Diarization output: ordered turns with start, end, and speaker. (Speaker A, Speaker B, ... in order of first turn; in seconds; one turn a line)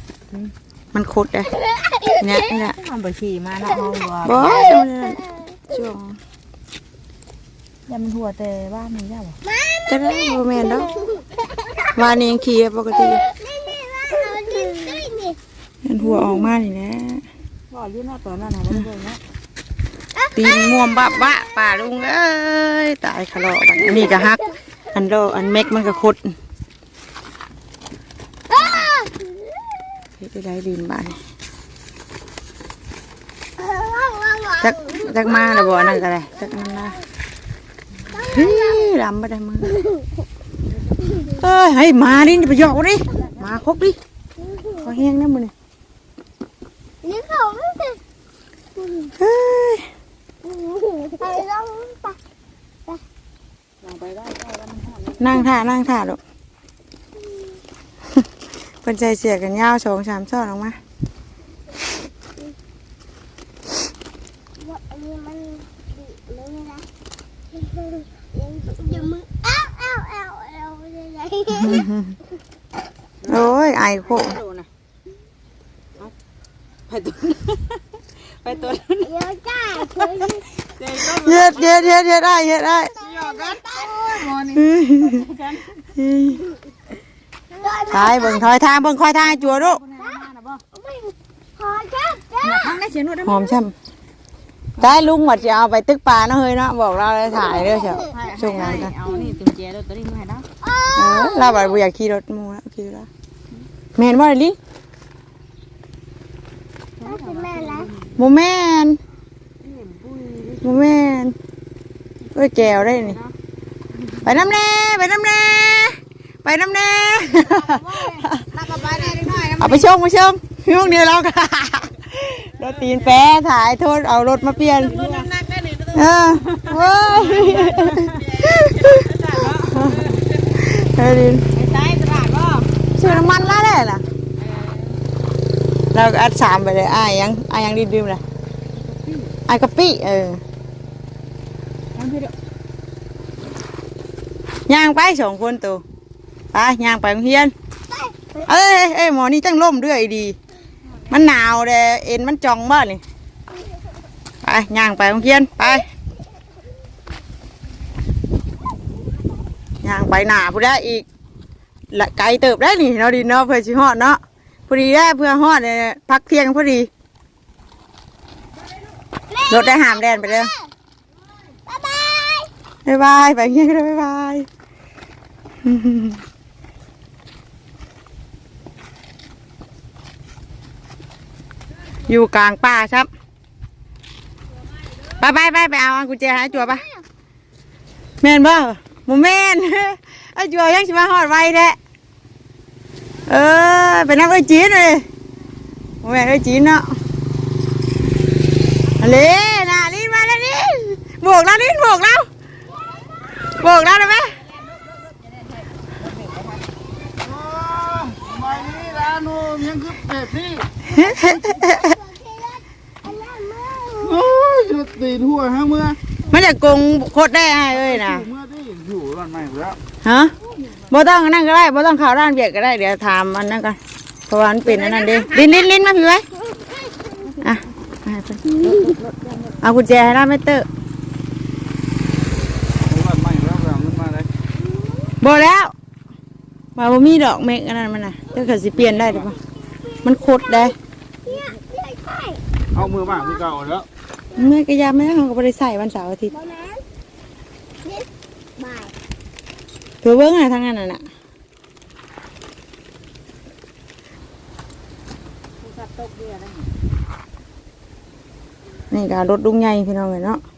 Speaker A: 0.9-1.6
Speaker B: 1.7-2.1
Speaker A: 2.2-2.8
Speaker C: 2.8-4.4
Speaker D: 3.9-4.4
Speaker A: 4.2-6.2
Speaker B: 4.6-5.6
Speaker C: 7.9-9.3
Speaker B: 9.4-11.9
Speaker A: 9.9-11.0
Speaker A: 11.9-13.2
Speaker B: 12.9-15.4
Speaker A: 15.8-17.2
Speaker D: 17.7-18.0
Speaker C: 17.8-19.2
Speaker B: 20.1-21.1
Speaker A: 20.3-26.3
Speaker B: 28.5-29.6
Speaker A: 30.2-31.2
Speaker B: 33.6-36.0
Speaker A: 34.6-37.0
Speaker B: 38.1-38.9
Speaker A: 38.1-39.8
Speaker A: 41.2-44.0
Speaker B: 44.4-44.9
Speaker A: 44.8-45.5
Speaker B: 47.0-48.0
Speaker B: 48.8-49.1
Speaker A: 49.2-49.9
Speaker B: 50.4-52.2
Speaker C: 53.9-55.1
Speaker A: 55.2-56.2
Speaker A: 58.8-60.8
Speaker B: 64.6-66.8
Speaker B: 67.5-71.9
Speaker A: 71.5-72.1
Speaker A: 73.3-74.4
Speaker C: 74.2-74.6
Speaker C: 76.9-77.6
Speaker C: 78.4-79.0
Speaker B: 79.0-80.5
Speaker C: 80.8-81.7
Speaker A: 81.0-82.9
Speaker B: 82.8-84.3
Speaker C: 83.0-83.5
Speaker C: 84.2-84.6
Speaker A: 84.5-85.2
Speaker C: 85.2-85.5
Speaker A: 86.0-86.4
Speaker B: 87.6-88.5
Speaker A: 87.9-89.8
Speaker C: 89.5-89.9
Speaker B: 90.0-92.8
Speaker D: 90.3-90.6
Speaker C: 92.4-93.4
Speaker A: 93.2-93.7
Speaker A: 94.8-98.9
Speaker B: 97.8-98.2
Speaker D: 98.3-99.6
Speaker C: 98.5-100.5
Speaker B: 100.6-101.8
Speaker A: 100.9-103.1
Speaker A: 103.9-104.6
Speaker B: 107.0-107.9
Speaker D: 107.0-108.1
Speaker A: 108.2-109.0
Speaker C: 109.9-110.6
Speaker A: 110.6-111.3
Speaker A: 112.3-113.2
Speaker A: 114.2-118.5
Speaker C: 118.5-119.8
Speaker A: 119.6-125.2
Speaker C: 124.8-125.9
Speaker A: 125.9-131.4
Speaker D: 127.5-127.9
Speaker D: 128.6-129.0
Speaker C: 128.9-129.6
Speaker C: 131.6-132.6
Speaker A: 132.9-134.0
Speaker A: 135.9-138.2
Speaker C: 139.0-139.3
Speaker A: 139.4-140.4
Speaker C: 142.0-142.3
Speaker A: 144.7-145.8
Speaker A: 146.5-147.5
Speaker B: 147.9-148.3
Speaker A: 148.4-150.4
Speaker A: 151.1-153.0
Speaker A: 154.4-155.9
Speaker A: 159.8-161.0
Speaker A: 161.9-166.9
Speaker B: 169.3-170.7
Speaker A: 169.5-170.5
Speaker B: 171.7-172.5
Speaker A: 172.8-174.5
Speaker A: 175.6-176.2
Speaker A: 182.0-183.1
Speaker A: 185.2-186.8
Speaker A: 188.2-191.8
Speaker A: 193.3-195.1
Speaker A: 196.0-196.8
Speaker A: 199.0-202.3
Speaker A: 203.5-204.4
Speaker D: 207.3-210.6
Speaker A: 210.8-212.0
Speaker B: 210.9-215.5
Speaker D: 214.3-215.9
Speaker A: 216.3-218.3
Speaker D: 218.7-219.6
Speaker A: 220.0-220.3
Speaker A: 220.9-226.2
Speaker B: 226.6-227.4
Speaker A: 227.4-228.9
Speaker C: 228.9-229.4
Speaker A: 229.6-230.7
Speaker D: 232.9-234.1
Speaker B: 234.6-235.2
Speaker A: 235.2-235.7
Speaker A: 236.8-239.4
Speaker B: 239.7-240.7
Speaker A: 240.0-240.7
Speaker B: 241.2-243.6
Speaker A: 244.3-246.3
Speaker B: 246.3-246.8
Speaker B: 247.8-248.9
Speaker A: 250.0-251.0
Speaker C: 255.8-256.5
Speaker A: 258.9-260.4